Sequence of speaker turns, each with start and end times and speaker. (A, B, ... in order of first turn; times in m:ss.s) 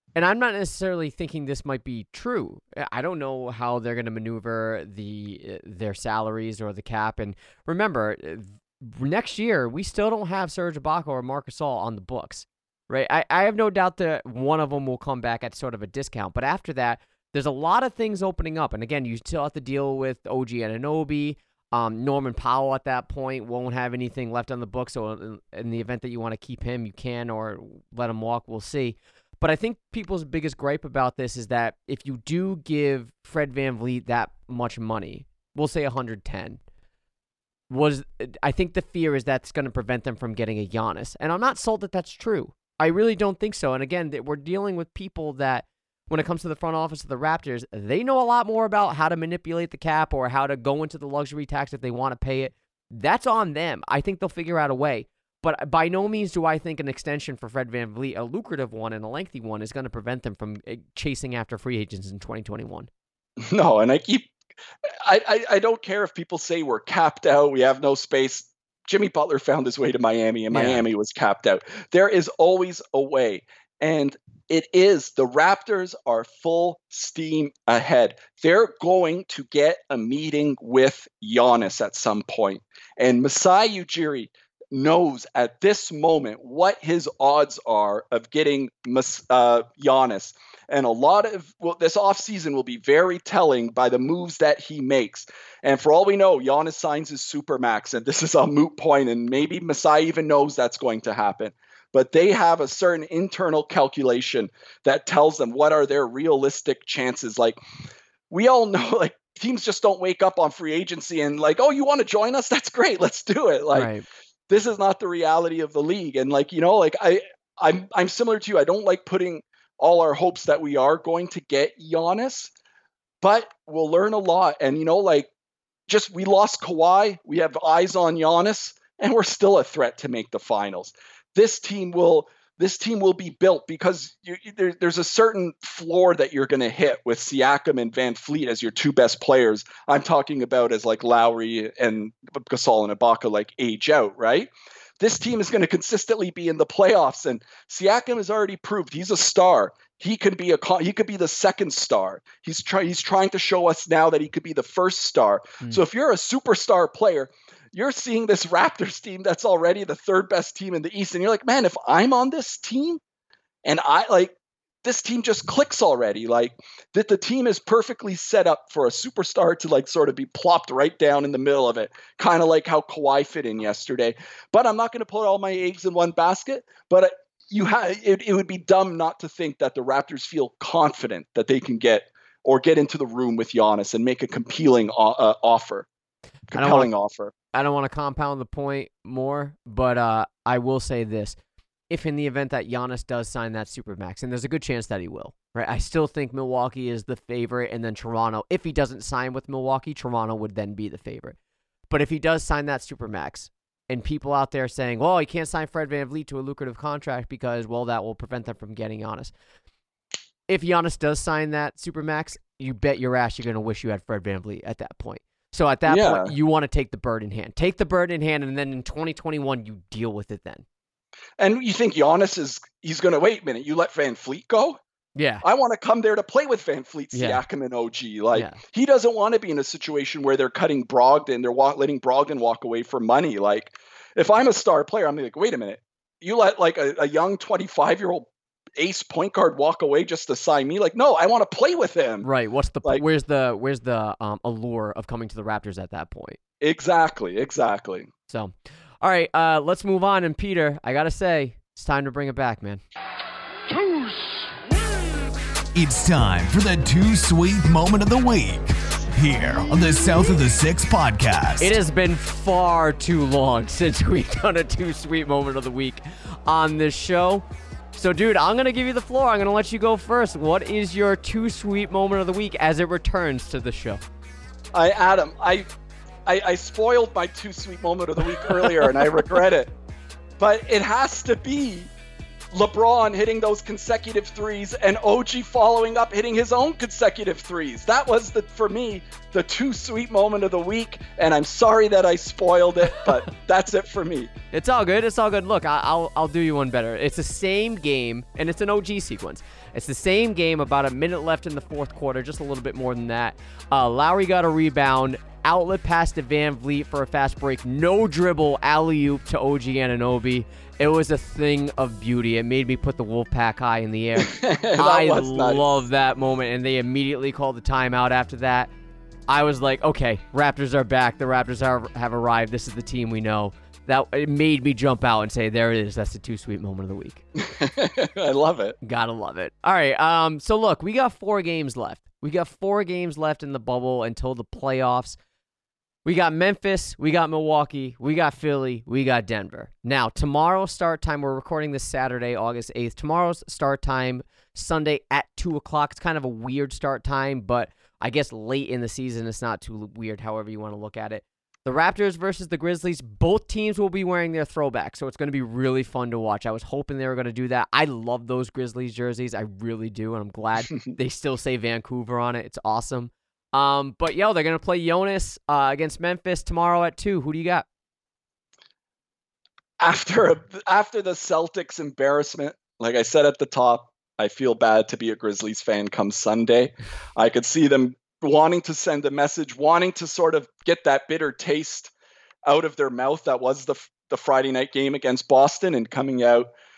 0:00.2-0:36.6 A
0:37.7-1:02.9 A
1:03.4-1:04.3 B
1:04.9-1:47.6 B
1:10.5-1:10.8 A
1:48.3-1:53.9 B
1:53.7-1:54.0 A
1:54.5-2:02.5 B
2:03.2-2:05.3 B
2:05.9-2:43.0 B
2:43.6-3:05.9 B
3:06.5-3:07.3 B
3:06.5-3:06.9 A
3:07.5-3:11.4 A
3:11.9-3:21.4 A
3:21.9-3:29.3 A
3:30.5-3:40.6 A
3:35.9-3:36.3 B
3:41.4-3:44.8 B
3:45.2-3:45.4 A
3:45.4-4:02.3 B
3:47.1-3:47.4 A
3:48.3-3:48.6 A
4:02.2-4:06.4 A
4:06.6-4:08.1 B
4:08.3-4:12.8 A
4:15.7-4:21.8 C
4:21.6-4:34.0 A
4:34.7-4:35.7 B
4:36.2-4:39.7 B
4:40.4-4:41.9 B
4:42.5-4:54.3 B
4:54.5-5:18.7 A
5:14.2-5:15.6 B
5:19.3-5:27.2 A
5:27.4-5:28.8 B
5:28.8-5:35.2 A
5:36.0-6:07.6 A
6:09.8-6:21.9 B
6:22.4-6:26.5 B